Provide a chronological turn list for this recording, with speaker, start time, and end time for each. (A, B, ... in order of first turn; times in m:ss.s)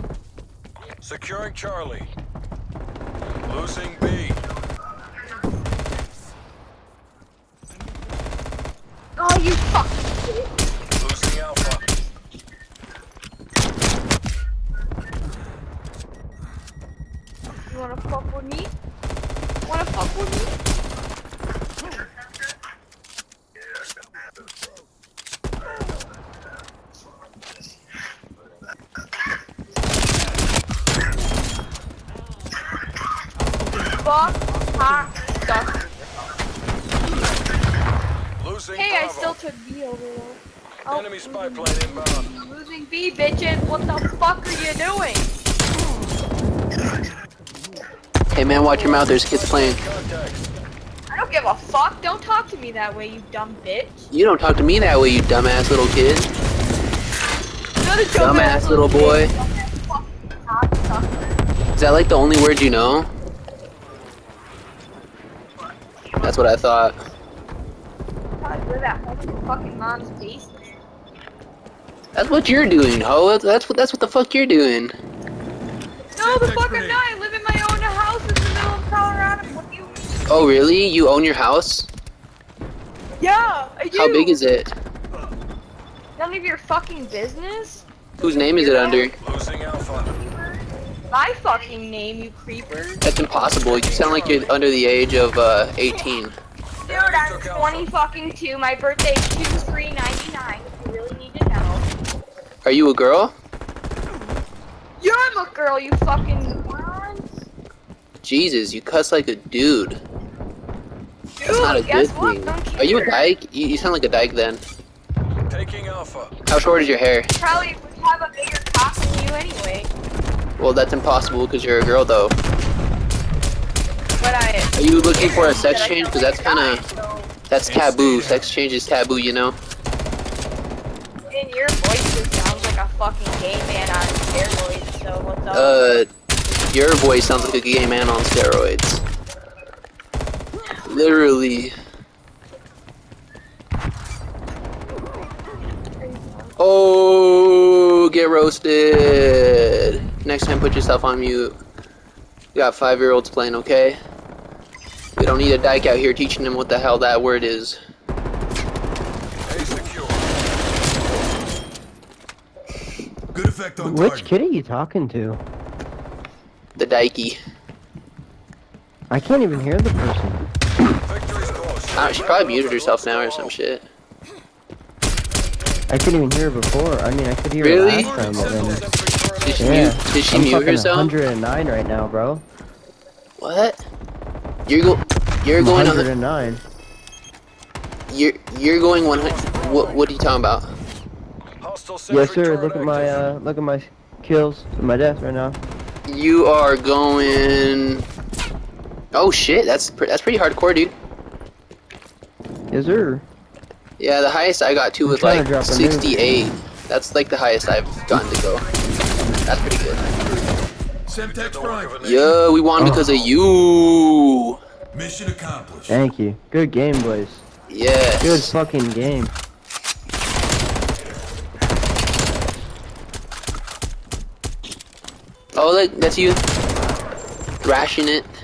0:01.0-0:02.1 A
0:03.4-0:04.4 A
0:09.2-0:10.5 B
0:11.0-0:11.8 A
0:17.7-0:18.7 B
0:19.6-0:20.5 B
0:33.9-0:35.9 B
0:38.4-0:39.4 A
0:38.7-0:45.3 B
0:40.9-0:42.3 A
0:48.3-0:49.8 C
0:48.9-0:50.5 A
0:51.1-0:54.0 B
0:54.1-0:56.3 C
0:57.8-1:01.4 B
0:58.1-0:59.3 C
1:01.8-1:03.1 C
1:06.2-1:07.0 C
1:08.4-1:10.6 B
1:12.1-1:14.9 C
1:16.1-1:20.0 B
1:16.2-1:17.0 D
1:20.3-1:21.9 C
1:23.2-1:24.4 B
1:23.9-1:24.7 C
1:26.2-1:29.1 B
1:28.2-1:29.1 C
1:29.2-1:30.2 A
1:30.1-1:33.0 B
1:33.0-1:36.3 C
1:33.4-1:34.6 A
1:36.8-1:41.9 B
1:36.9-1:37.9 A
1:42.6-1:43.3 C
1:45.0-1:47.3 B
1:48.2-1:50.0 C
1:51.4-1:53.3 B
1:51.4-1:54.6 C
1:55.5-1:56.4 A
1:56.4-1:57.3 C
1:57.4-1:59.9 B
2:00.6-2:02.3 C
2:04.2-2:07.3 B
2:04.7-2:06.8 C
2:07.5-2:09.6 C
2:07.6-2:08.5 D
2:11.3-2:15.9 B
2:15.5-2:16.1 C
2:16.7-2:19.0 C
2:20.8-2:21.7 C
2:26.0-2:26.6 B
2:26.6-2:31.6 C
2:32.5-2:34.0 C
2:35.2-2:37.8 C
2:39.4-2:40.3 A
2:43.3-2:44.3 D
2:43.8-2:45.4 E
2:46.8-2:47.4 C
2:49.1-2:50.4 E
2:51.0-2:53.6 A
2:51.9-2:53.8 C
2:55.9-2:58.8 E
2:57.6-2:58.2 C
2:57.9-2:59.0 D
2:58.1-3:00.0 A
2:59.4-3:01.1 C
2:59.6-3:02.4 E
3:03.4-3:03.8 C
3:04.7-3:06.1 C
3:05.6-3:06.6 E
3:08.1-3:10.6 C
3:09.1-3:10.2 A
3:11.6-3:13.2 A
3:12.1-3:15.6 E
3:16.0-3:18.0 C
3:19.1-3:20.9 C
3:22.7-3:23.2 E
3:24.0-3:28.6 C
3:25.0-3:26.3 E
3:29.4-3:30.0 C
3:31.1-3:32.3 D
3:31.2-3:32.3 A
3:32.0-3:34.6 C
3:32.8-3:33.1 E
3:34.9-3:36.0 D
3:35.9-3:37.4 E
3:37.7-3:38.5 C
3:38.2-3:39.3 E
3:45.5-3:46.4 C
3:47.6-3:48.3 C